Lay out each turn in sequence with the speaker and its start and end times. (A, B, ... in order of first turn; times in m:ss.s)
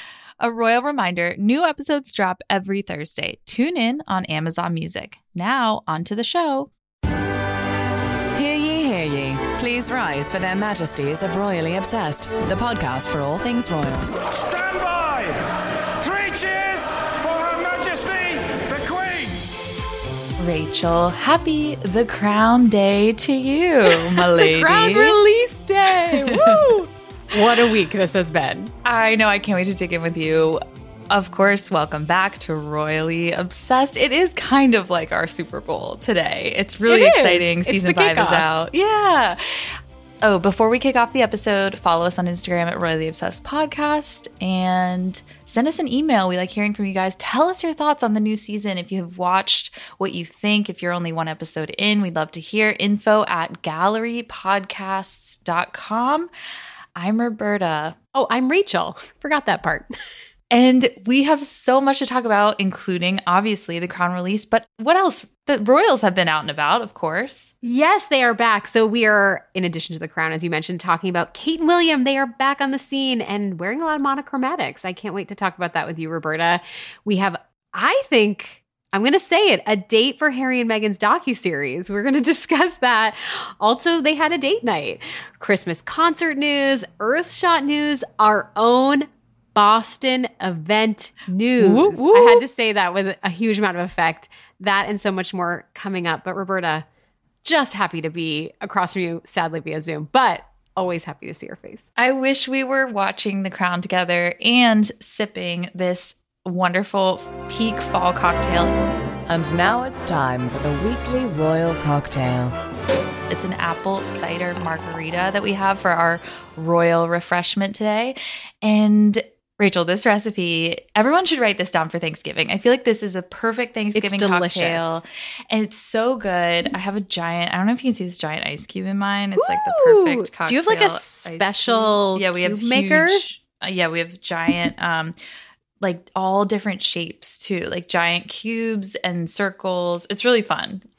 0:00.4-0:06.7 A
0:08.4-0:14.5 B
0:14.8-0:15.3 C
0:16.2-0:16.8 C
0:17.4-0:19.3 C
0:20.4-0:25.2 A
0:24.0-0:28.7 D
0:26.1-0:26.8 A
0:28.8-0:56.3 A
0:36.9-0:38.5 D
0:57.0-0:58.0 A
0:58.1-0:59.9 D
1:00.5-1:07.5 A
1:07.6-1:36.9 D
1:31.6-1:32.4 A
1:37.4-1:41.9 D
1:42.0-1:48.8 A
1:49.3-1:52.5 B
1:53.3-2:15.2 A
2:03.9-2:05.0 D
2:09.4-2:13.3 D
2:15.8-2:20.8 A